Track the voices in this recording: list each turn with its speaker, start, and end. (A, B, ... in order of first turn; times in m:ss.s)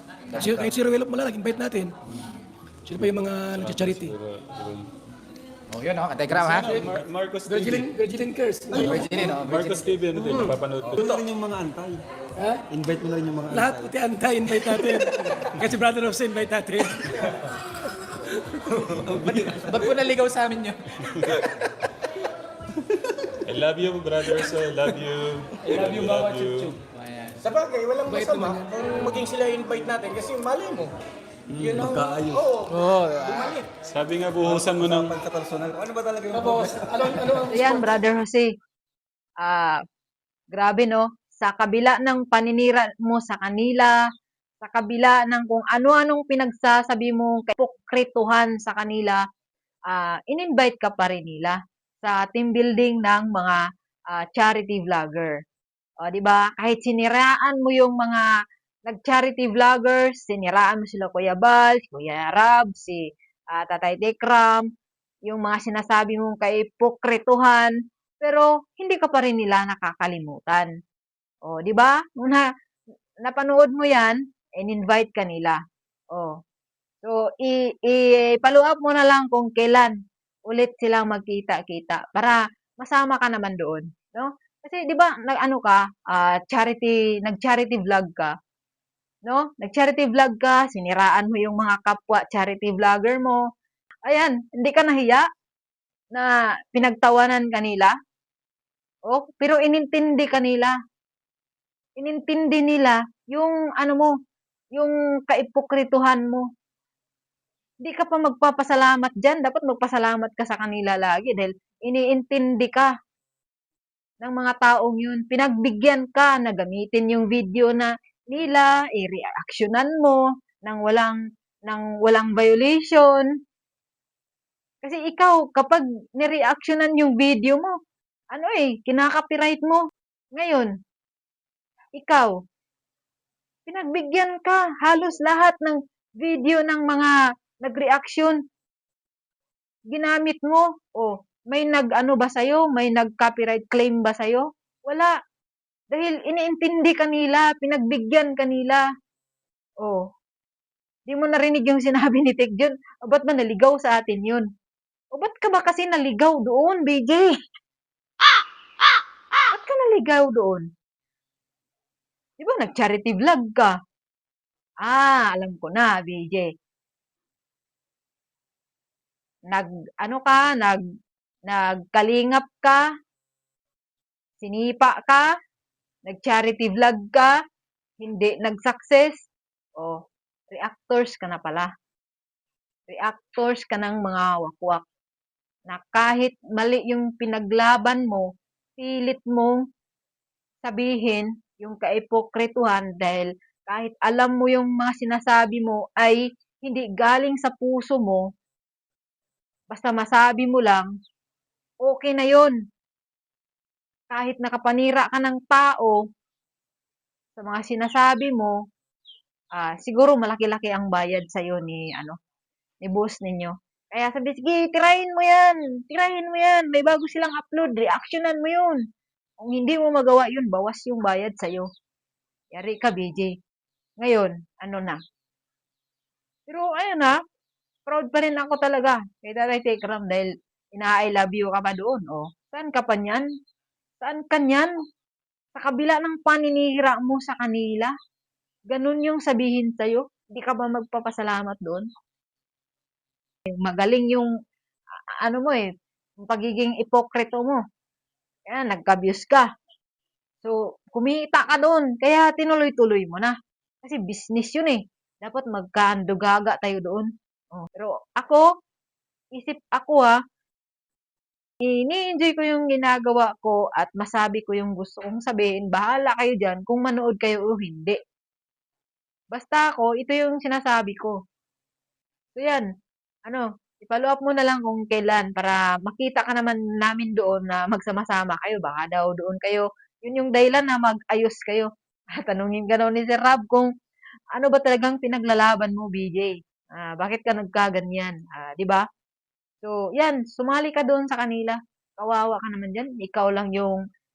0:00.3-0:00.7 A
0:00.3-0:01.9 B
0:02.8-0:04.1 B
0:03.5-0:04.9 C
0:05.7-0:06.9 A
0:06.3-0:07.9 C
0:07.5-0:09.0 B
0:08.7-0:09.2 D
0:08.8-0:09.9 A
0:08.9-0:11.1 C
0:10.1-0:12.0 D
0:12.7-0:14.0 D
0:13.5-0:17.2 B
0:18.7-0:19.9 D
0:19.1-0:19.7 C
0:19.7-0:20.9 A
0:21.0-0:21.4 C
0:23.4-0:26.8 C
0:25.8-0:26.2 D
0:26.9-0:27.5 A
0:27.4-0:30.9 E
0:28.2-0:28.9 B
0:28.8-0:29.2 A
0:29.0-0:29.3 C
0:31.5-0:32.5 C
0:31.5-0:33.6 E
0:32.7-0:33.6 A
0:33.8-0:35.2 C
0:34.4-0:37.5 D
0:36.3-0:37.9 B
0:37.5-0:38.5 F
0:39.4-0:39.8 F
0:40.5-0:44.0 F
0:44.6-0:49.2 F
0:49.9-0:53.6 F
0:54.1-0:55.3 F
0:56.0-0:58.3 F
0:58.9-1:03.0 F
1:03.5-1:04.6 F
1:05.3-1:10.7 F
1:11.4-1:12.5 F
1:13.2-1:15.6 F
1:17.0-1:19.9 F
1:20.5-1:28.3 F
1:29.2-1:33.4 F
1:34.1-1:35.2 F
1:36.1-1:37.9 F
1:39.1-1:40.7 F
1:42.0-1:44.1 F
1:44.8-1:46.4 F
1:47.8-1:52.9 F
1:54.2-2:03.3 F
2:04.8-2:07.7 F
2:08.3-2:09.8 F
2:10.3-2:10.7 F
2:12.0-2:12.3 F
2:13.6-2:18.4 F
2:19.9-2:25.1 F
2:25.9-2:28.8 F
2:31.1-2:34.4 F
2:35.1-2:37.4 F
2:39.5-2:40.7 F
2:42.4-2:43.7 F
2:44.8-2:46.5 F
2:49.5-2:50.8 F
2:51.5-2:52.8 F
2:54.4-2:55.3 F
2:56.1-2:57.3 F
2:58.0-2:59.1 F
3:00.5-3:01.7 F
3:02.9-3:04.8 F
3:05.7-3:08.2 F
3:08.8-3:09.6 F
3:10.6-3:18.2 F
3:19.7-3:20.9 F
3:21.8-3:22.6 F
3:24.1-3:26.0 F
3:27.4-3:28.6 F
3:29.6-3:32.1 F
3:32.8-3:38.8 F
3:39.4-3:41.7 F
3:42.5-3:43.3 F
3:44.0-3:45.0 F
3:46.5-3:47.1 F
3:47.8-3:53.3 F
3:54.0-3:54.7 F
3:55.6-3:57.9 F
3:58.7-4:01.8 F
4:03.5-4:04.3 F
4:05.2-4:05.6 F
4:06.2-4:07.6 F
4:08.5-4:09.5 F
4:10.4-4:18.4 F
4:19.4-4:20.2 F
4:21.6-4:28.0 F
4:29.3-4:31.2 F
4:32.4-4:32.7 F
4:33.3-4:43.7 F
4:44.4-4:48.8 F
4:49.6-4:53.8 F